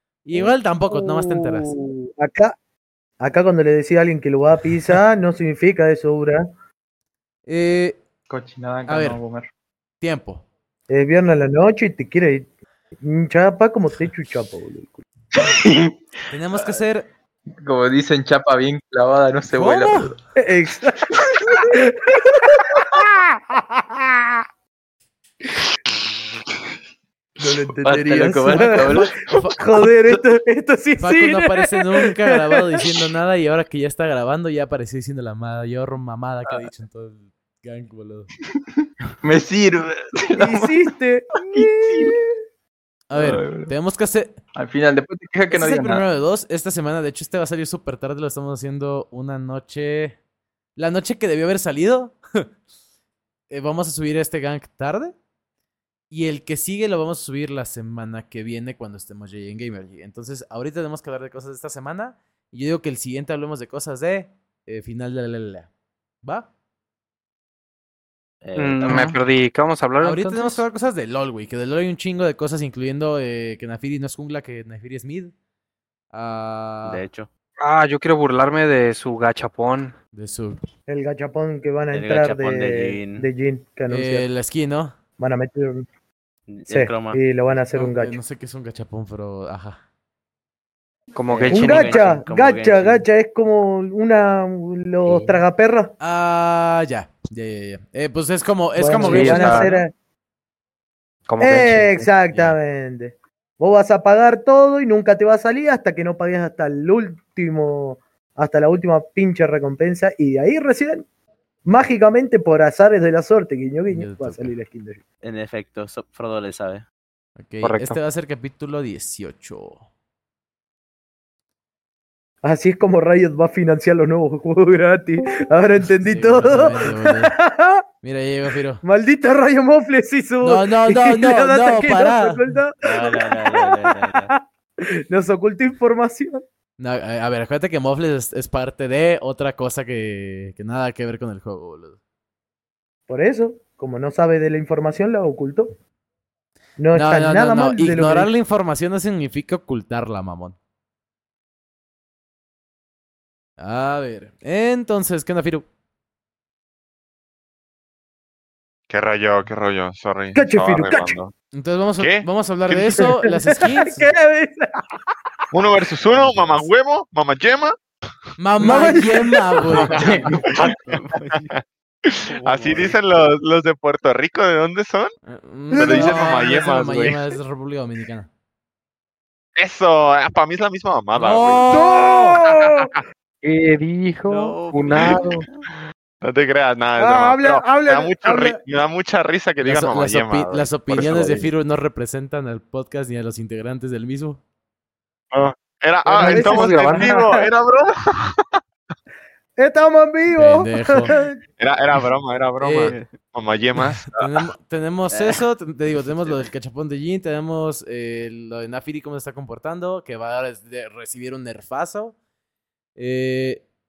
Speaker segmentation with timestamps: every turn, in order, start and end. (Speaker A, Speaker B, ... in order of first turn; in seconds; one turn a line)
Speaker A: 0.2-1.7
Speaker B: 0.3-2.5
Speaker B: 3.2-6.5
Speaker A: 7.5-8.0
Speaker C: 8.3-9.5
Speaker A: 8.9-9.2
Speaker A: 10.0-10.5
Speaker B: 10.9-15.0
Speaker C: 15.3-15.9
Speaker A: 16.3-17.1
Speaker C: 17.6-20.2
Speaker A: 19.5-20.1
Speaker B: 20.4-24.3
Speaker B: 27.4-33.0
Speaker C: 27.8-29.2
Speaker A: 28.5-29.5
Speaker A: 31.0-38.3
Speaker C: 39.2-40.8
Speaker B: 40.3-42.2
Speaker C: 41.4-42.2
Speaker A: 43.1-44.4
Speaker C: 43.1-43.7
Speaker C: 44.5-46.0
Speaker A: 45.5-50.2
Speaker A: 50.8-52.5
Speaker A: 53.5-55.1
Speaker A: 56.1-65.7
Speaker A: 66.2-66.5
Speaker D: 68.4-69.1
Speaker E: 68.5-70.6
Speaker A: 68.8-69.1
Speaker A: 70.0-75.3
Speaker A: 76.1-77.0
Speaker D: 76.8-77.3
Speaker E: 77.6-79.9
Speaker A: 80.1-80.6
Speaker B: 80.9-84.3
Speaker D: 81.9-83.3
Speaker A: 83.9-85.0
Speaker B: 85.2-85.9
Speaker D: 86.5-87.2
Speaker B: 86.7-88.2
Speaker A: 87.7-89.8
Speaker E: 91.1-92.2
Speaker D: 91.3-93.0
Speaker B: 91.5-95.9
Speaker D: 95.0-95.4
Speaker A: 96.0-99.7
Speaker B: 98.8-99.9
Speaker E: 99.0-99.8
Speaker E: 101.3-102.1
Speaker B: 101.4-111.0
Speaker B: 111.6-115.0
Speaker A: 113.9-114.5
Speaker D: 115.2-116.9
Speaker A: 117.4-119.8
Speaker E: 117.6-118.0
Speaker B: 122.4-127.8
Speaker A: 126.0-127.3
Speaker A: 128.0-128.8
Speaker B: 128.8-136.4
Speaker A: 130.4-132.4
Speaker D: 132.8-134.3
Speaker A: 136.8-142.0
Speaker B: 143.1-145.7
Speaker B: 146.8-148.3
Speaker A: 146.9-150.6
Speaker A: 153.6-155.7
Speaker F: 158.9-161.3
Speaker B: 160.3-161.1
Speaker A: 161.5-164.1
Speaker F: 162.0-163.1
Speaker B: 163.6-164.9
Speaker F: 165.5-167.8
Speaker A: 166.1-166.7
Speaker A: 168.4-171.5
Speaker B: 168.6-170.1
Speaker F: 169.7-175.1
Speaker C: 170.0-170.7
Speaker D: 172.5-172.9
Speaker A: 172.6-172.9
Speaker A: 175.3-178.3
Speaker F: 175.7-177.3
Speaker B: 175.7-176.3
Speaker F: 179.6-182.8
Speaker A: 181.1-182.1
Speaker B: 181.7-182.9
Speaker E: 183.4-185.4
Speaker D: 184.2-185.6
Speaker F: 186.2-191.5
Speaker B: 187.0-188.6
Speaker A: 189.6-194.4
Speaker F: 195.3-198.4
Speaker E: 196.2-197.0
Speaker B: 196.2-197.5
Speaker B: 199.6-201.4
Speaker A: 200.3-201.1
Speaker F: 201.6-204.3
Speaker A: 202.6-202.9
Speaker D: 202.7-203.1
Speaker A: 204.1-212.2
Speaker A: 212.9-213.6